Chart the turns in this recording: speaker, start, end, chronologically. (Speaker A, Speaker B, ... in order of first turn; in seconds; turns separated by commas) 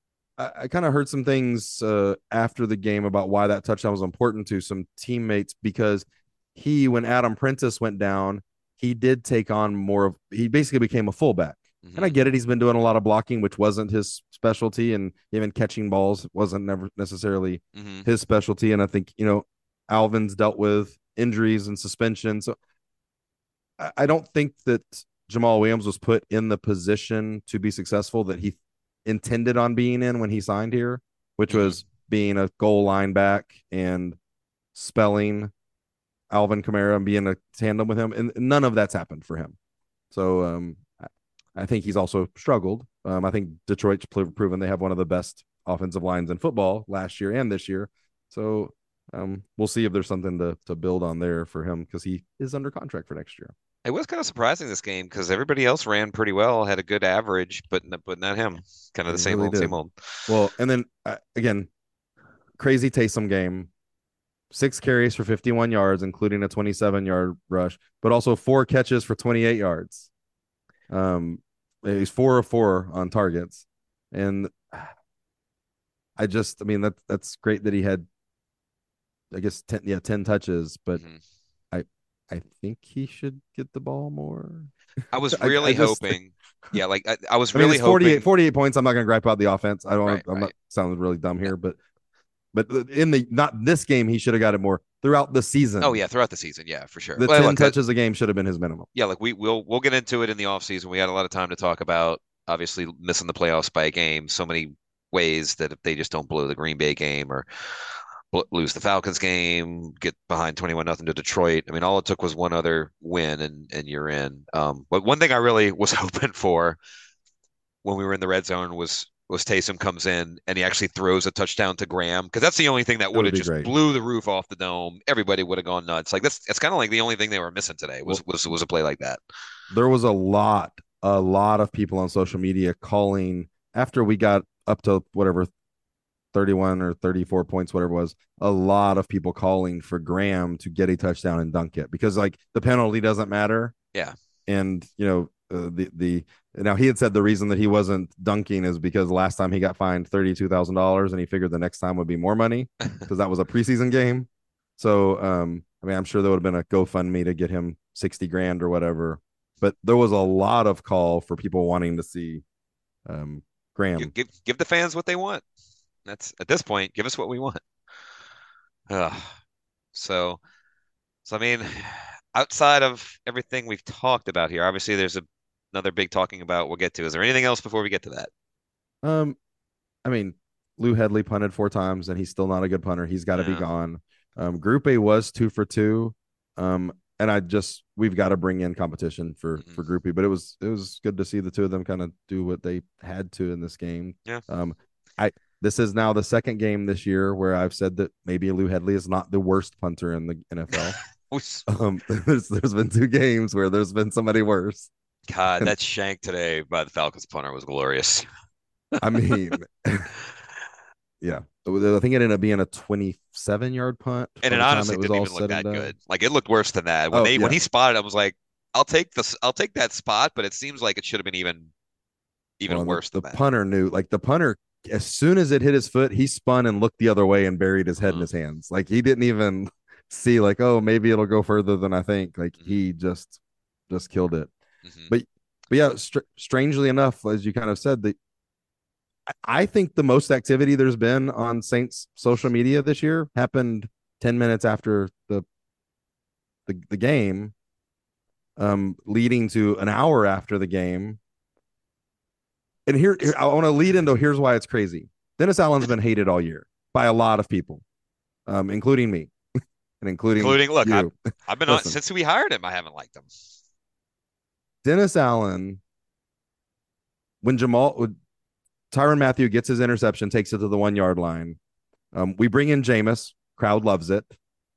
Speaker A: 0.4-22.6, Speaker B: 11.8-12.2, Speaker B: 17.7-18.1, Speaker A: 23.8-34.2, Speaker B: 31.5-31.8, Speaker A: 34.7-35.5, Speaker A: 36.3-39.5, Speaker A: 40.1-40.9, Speaker A: 41.5-53.5, Speaker B: 53.8-59.9, Speaker A: 59.1-59.7, Speaker A: 60.3-61.7, Speaker A: 62.6-63.7, Speaker A: 64.5-70.1, Speaker A: 70.9-74.9, Speaker A: 76.2-78.1, Speaker A: 79.3-81.0, Speaker B: 80.9-81.2, Speaker A: 81.7-84.7, Speaker B: 85.1-88.3, Speaker A: 85.3-86.1, Speaker A: 87.5-91.8, Speaker B: 90.0-90.5, Speaker A: 92.5-96.0, Speaker B: 95.8-97.7, Speaker A: 97.2-98.9, Speaker B: 98.9-107.5, Speaker B: 108.3-116.8, Speaker B: 117.8-129.2, Speaker A: 123.1-123.7, Speaker A: 129.7-135.5, Speaker A: 136.3-143.7, Speaker A: 144.5-162.4, Speaker A: 163.1-164.1, Speaker B: 164.0-165.4, Speaker B: 166.1-167.6, Speaker B: 168.9-169.3, Speaker B: 169.9-170.4, Speaker B: 171.2-178.3, Speaker A: 179.0-179.4, Speaker A: 180.0-201.0, Speaker B: 183.3-183.6, Speaker B: 200.8-201.6, Speaker A: 201.7-204.9, Speaker B: 205.3-208.2, Speaker A: 209.0-210.1, Speaker A: 211.2-215.9, Speaker B: 214.4-221.7, Speaker A: 217.1-217.6, Speaker B: 222.6-223.4, Speaker A: 222.7-233.4, Speaker A: 233.9-234.5, Speaker B: 234.8-235.1, Speaker A: 235.1-238.2, Speaker A: 239.4-245.4, Speaker A: 246.7-247.5, Speaker A: 248.6-251.2, Speaker A: 252.8-257.8, Speaker A: 258.5-259.3, Speaker A: 260.0-261.1, Speaker B: 260.4-263.3, Speaker A: 261.7-261.9, Speaker A: 264.8-265.8, Speaker A: 267.4-268.1, Speaker A: 268.9-271.6, Speaker A: 272.1-274.3